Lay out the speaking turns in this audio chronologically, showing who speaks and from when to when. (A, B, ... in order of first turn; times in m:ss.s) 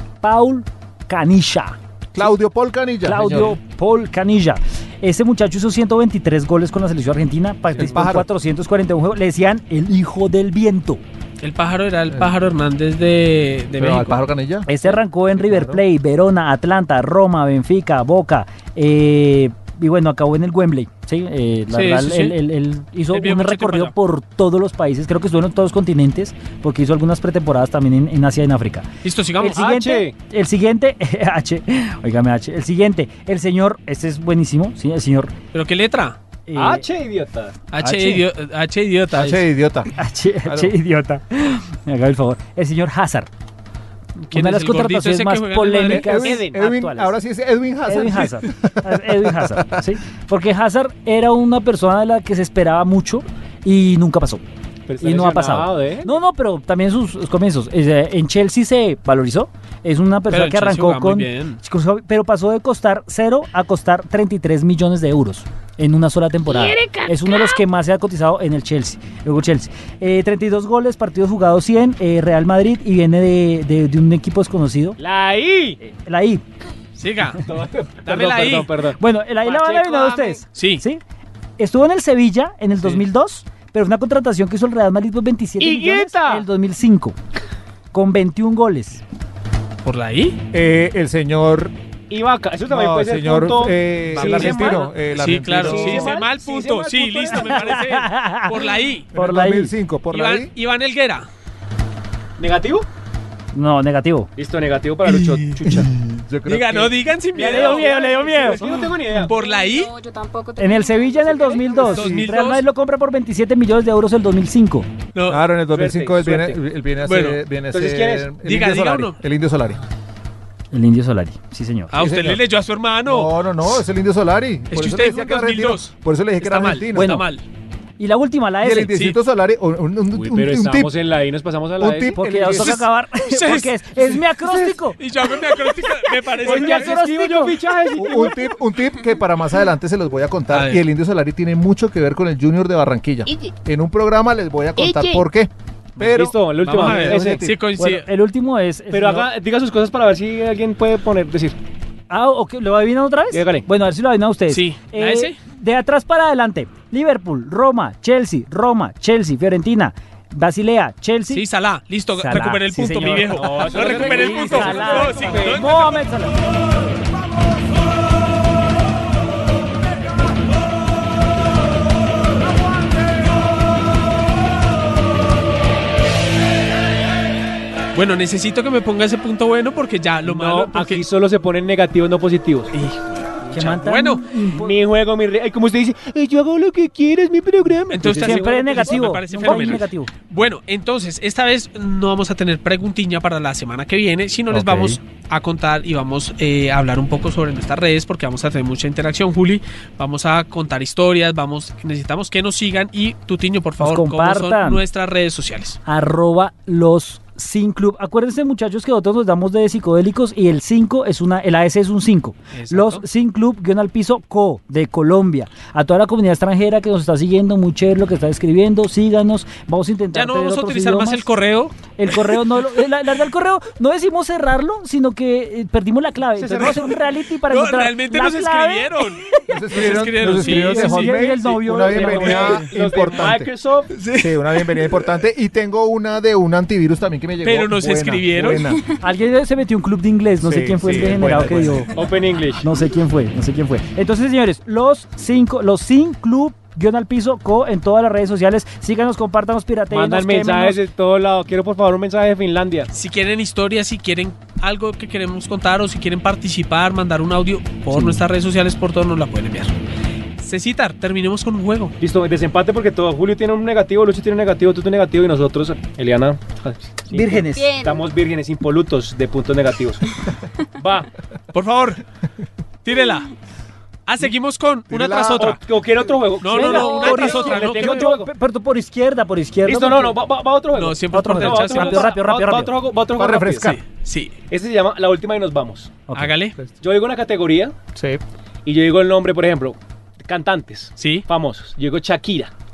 0:00.2-0:02.3 A
0:02.1-0:03.6 B
0:03.0-0:11.0 A
0:07.8-0:08.3 B
0:11.4-0:14.2 C
0:13.8-0:14.7 B
0:14.7-0:28.9 A
0:15.4-0:15.8 B
0:21.7-0:22.4 C
0:23.1-0:23.9 C
0:29.0-0:29.6 C
0:29.4-0:35.3 A
0:29.4-0:30.1 D
0:35.5-0:36.2 C
0:36.5-0:36.8 A
0:36.5-0:37.6 D
0:37.7-0:39.4 C
0:37.8-0:38.2 A
0:39.1-0:39.9 B
0:39.9-0:43.3 A
0:40.4-0:40.7 B
0:44.3-0:46.1 C
0:44.3-0:47.1 A
0:45.9-0:49.8 B
0:46.1-0:46.6 D
0:47.9-0:54.4 A
0:54.9-0:56.1 D
0:55.0-1:15.0 A
1:00.3-1:01.6 C
1:06.5-1:07.1 D
1:15.0-1:15.8 D
1:15.8-1:16.4 A
1:17.0-1:17.4 C
1:17.4-1:20.4 D
1:18.0-1:18.7 C
1:19.0-1:21.0 A
1:20.5-1:20.8 C
1:21.6-1:27.2 A
1:25.6-1:26.4 D
1:27.9-1:29.0 A
1:29.8-1:30.4 C
1:30.5-1:31.7 B
1:32.1-1:34.9 D
1:32.7-1:36.1 B
1:34.1-1:39.1 C
1:35.5-1:37.8 D
1:37.3-1:38.5 A
1:39.1-1:40.5 B
1:39.1-1:39.7 A
1:40.1-1:41.3 C
1:42.4-1:42.8 D
1:43.5-1:44.3 A
1:44.4-1:45.9 D
1:45.6-1:46.9 B
1:46.4-1:48.0 C
1:47.3-1:49.3 D
1:47.5-1:48.6 A
1:48.5-1:49.9 C
1:49.3-1:52.0 E
1:50.6-1:54.9 A
1:51.8-1:52.6 C
1:52.0-1:52.3 B
1:55.1-1:55.4 C
1:55.3-1:59.8 B
1:55.7-1:56.6 D
1:57.0-1:57.4 C
1:57.7-1:58.3 D
1:58.4-1:59.2 C
2:00.7-2:01.9 A
2:01.9-2:03.3 C
2:01.9-2:02.4 B
2:03.0-2:07.2 B
2:04.7-2:07.4 C
2:06.9-2:07.2 A
2:08.0-2:09.0 A
2:08.6-2:10.9 B
2:10.1-2:12.2 D
2:11.8-2:12.8 B
2:12.1-2:15.0 A
2:12.6-2:17.0 C
2:16.4-2:18.4 D
2:16.4-2:17.6 A
2:17.9-2:27.6 B
2:20.5-2:20.8 C
2:24.8-2:25.2 D
2:26.0-2:27.4 D
2:26.6-2:28.0 C
2:27.8-2:29.3 A
2:28.9-2:31.6 D
2:32.1-2:41.4 A
2:33.3-2:33.6 D
2:34.5-2:35.4 C
2:41.3-2:46.0 C
2:42.1-2:46.5 A
2:43.3-2:45.7 D
2:57.9-3:01.0 C
3:00.2-3:02.7 D
3:02.7-3:04.2 C
3:03.5-3:04.8 A
3:04.6-3:09.8 D
3:07.9-3:25.8 C
3:08.1-3:10.1 A
3:14.5-3:15.0 B
3:23.8-3:24.8 A
3:25.8-3:41.3 A
3:32.5-3:33.0 C
3:40.1-3:42.4 C
3:42.0-3:49.0 A
3:46.4-3:47.0 D
3:47.5-3:51.2 C
3:49.5-3:53.5 B
3:50.4-3:52.7 A
3:51.8-3:53.9 D
3:53.9-3:55.0 C
3:54.1-3:58.8 B
3:57.4-3:58.6 C
3:59.0-4:01.9 A
4:00.4-4:01.9 B
4:01.9-4:02.6 D
4:02.6-4:10.8 A
4:09.9-4:12.9 D
4:12.9-4:19.7 C
4:17.9-4:18.2 A
4:20.4-4:22.0 C
4:22.0-4:30.0 D
4:27.1-4:27.7 A
4:27.5-4:28.1 E
4:30.8-4:31.1 D
4:31.5-4:32.0 C
4:32.8-4:33.3 C
4:34.0-4:35.6 C
4:34.9-4:35.5 B
4:35.4-4:38.3 D
4:36.4-4:38.1 C
4:36.5-4:40.2 A
4:36.7-4:37.3 E
4:39.6-4:43.7 D
4:40.7-4:42.1 C
4:41.1-4:42.8 A
4:43.2-4:43.8 B
4:43.6-4:44.3 C
4:44.5-4:46.0 D
4:46.2-4:46.6 C
4:46.8-4:47.7 D
4:47.9-4:48.2 B
4:48.6-4:52.5 D
4:51.0-4:51.2 C